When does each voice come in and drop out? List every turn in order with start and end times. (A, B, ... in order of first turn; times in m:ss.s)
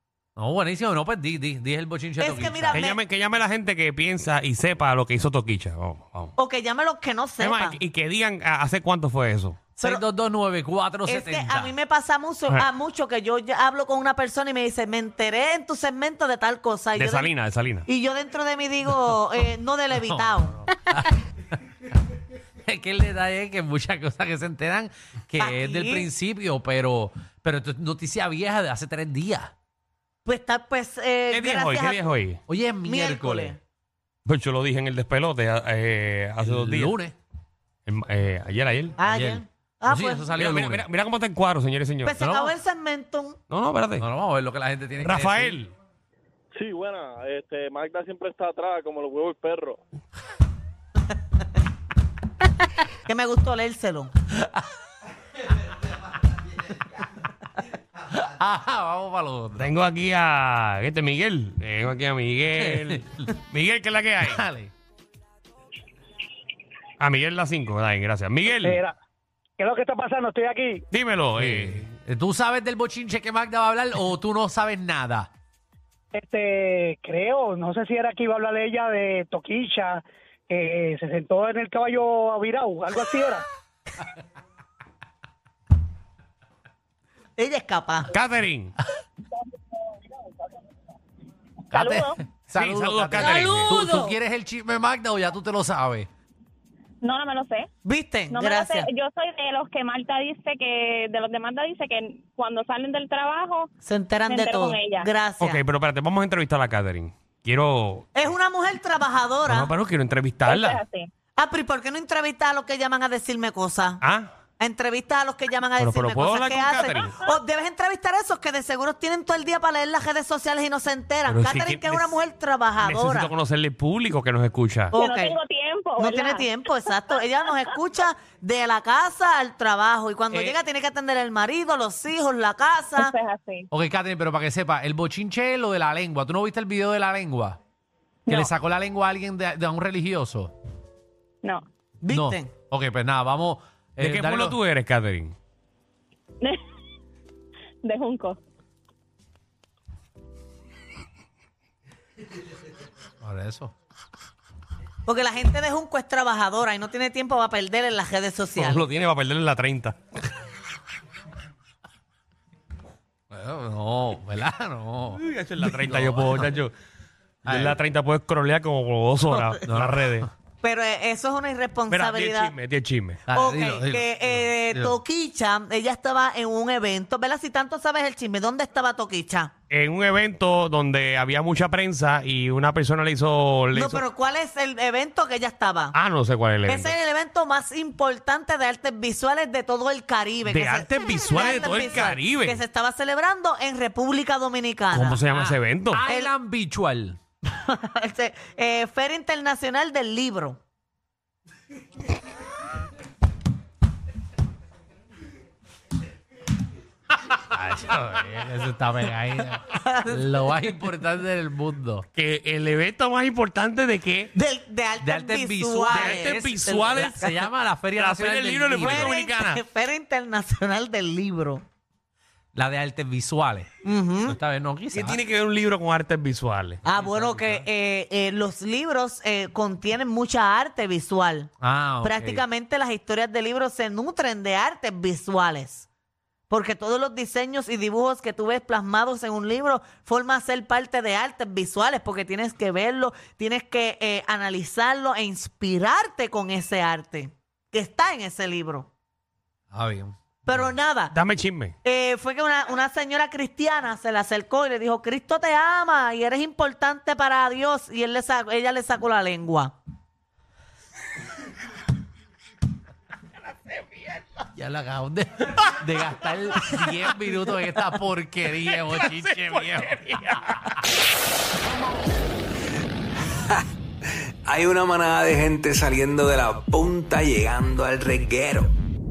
0:00.4-0:02.9 A
0:02.2-0:03.0 B
0:02.7-0:06.3 C
0:06.4-0:07.8 B
0:07.4-0:09.6 C
0:09.8-0:11.7 A
0:11.0-0:17.3 B
0:17.0-0:17.8 C
0:17.9-0:20.6 B
0:19.9-0:21.2 A
0:22.6-0:29.5 A
0:25.4-0:26.1 B
0:30.2-0:32.0 B
0:31.3-0:32.4 C
0:32.5-0:33.6 A
0:32.8-0:33.6 B
0:34.2-0:37.0 C
0:36.4-0:37.2 A
0:37.8-0:39.0 C
0:39.0-0:40.6 B
0:39.0-0:40.8 A
0:40.3-0:42.1 C
0:42.0-0:43.4 B
0:42.2-0:42.6 A
0:43.5-0:44.1 C
0:44.0-0:45.6 A
0:45.0-0:45.7 C
0:46.5-0:49.8 D
0:53.0-0:54.1 B
0:58.0-0:59.7 A
0:59.6-1:04.4 C
1:02.6-1:03.2 A
1:04.2-1:04.7 A
1:07.0-1:08.8 C
1:08.5-1:08.9 D
1:09.6-1:10.8 D
1:10.9-1:11.8 C
1:11.4-1:15.3 A
1:16.1-1:23.4 D
1:27.4-1:28.1 B
1:28.1-1:28.8 C
1:31.7-1:32.2 E
1:31.7-1:36.1 A
1:32.5-1:33.8 C
1:33.2-1:34.2 E
1:37.0-1:37.7 E
1:37.8-1:38.9 B
1:38.3-1:43.7 E
1:43.8-1:45.6 B
1:44.3-1:45.1 E
1:45.4-1:48.3 C
1:48.2-1:49.7 B
1:49.5-1:50.8 C
1:50.4-1:51.1 E
1:51.4-1:54.0 B
1:54.0-1:54.3 C
1:54.6-2:03.3 B
1:55.8-1:57.1 C
1:56.8-1:57.3 E
2:01.3-2:02.2 C
2:02.8-2:04.9 C
2:04.9-2:05.4 B
2:04.9-2:06.5 E
2:06.0-2:13.1 B
2:13.0-2:13.7 E
2:13.7-2:17.6 A
2:18.3-2:20.5 A
2:22.0-2:22.5 B
2:22.1-2:24.6 A
2:24.0-2:25.3 C
2:27.8-2:28.4 E
2:33.2-2:33.7 A
2:35.0-2:38.8 B
2:38.6-2:40.0 C
2:43.3-2:46.5 A
2:45.1-2:46.7 C
2:47.4-2:50.3 C
2:47.4-2:47.8 A
2:49.6-2:50.3 A
2:50.6-2:52.5 B
2:51.9-2:53.2 C
2:53.3-2:55.0 A
2:53.3-2:59.5 B
2:59.7-3:04.0 C
3:03.7-3:05.9 B
3:05.9-3:06.9 C
3:06.7-3:15.2 B
3:10.4-3:12.6 C
3:14.9-3:16.0 C
3:15.1-3:17.2 A
3:16.0-3:16.3 B
3:17.4-3:20.6 B
3:27.6-3:32.0 A
3:27.6-3:28.1 C
3:29.6-3:30.3 B
3:32.1-3:34.3 C
3:34.3-3:37.4 B
3:35.0-3:39.1 A
3:35.9-3:37.3 C
3:37.9-3:39.6 C
3:38.8-3:41.6 B
3:42.5-3:43.7 A
3:43.8-3:44.4 B
3:44.2-3:45.2 A
3:44.9-3:46.8 C
3:46.8-3:47.6 A
3:46.8-3:51.5 B
3:51.6-3:52.4 A
3:52.0-3:55.9 B
3:56.5-4:08.9 B
4:09.7-4:10.7 A
4:10.4-4:11.1 B
4:11.1-4:11.7 C
4:11.8-4:19.7 B
4:23.7-4:24.2 C
4:24.5-4:30.0 A
4:28.6-4:30.7 C
4:34.4-4:38.8 F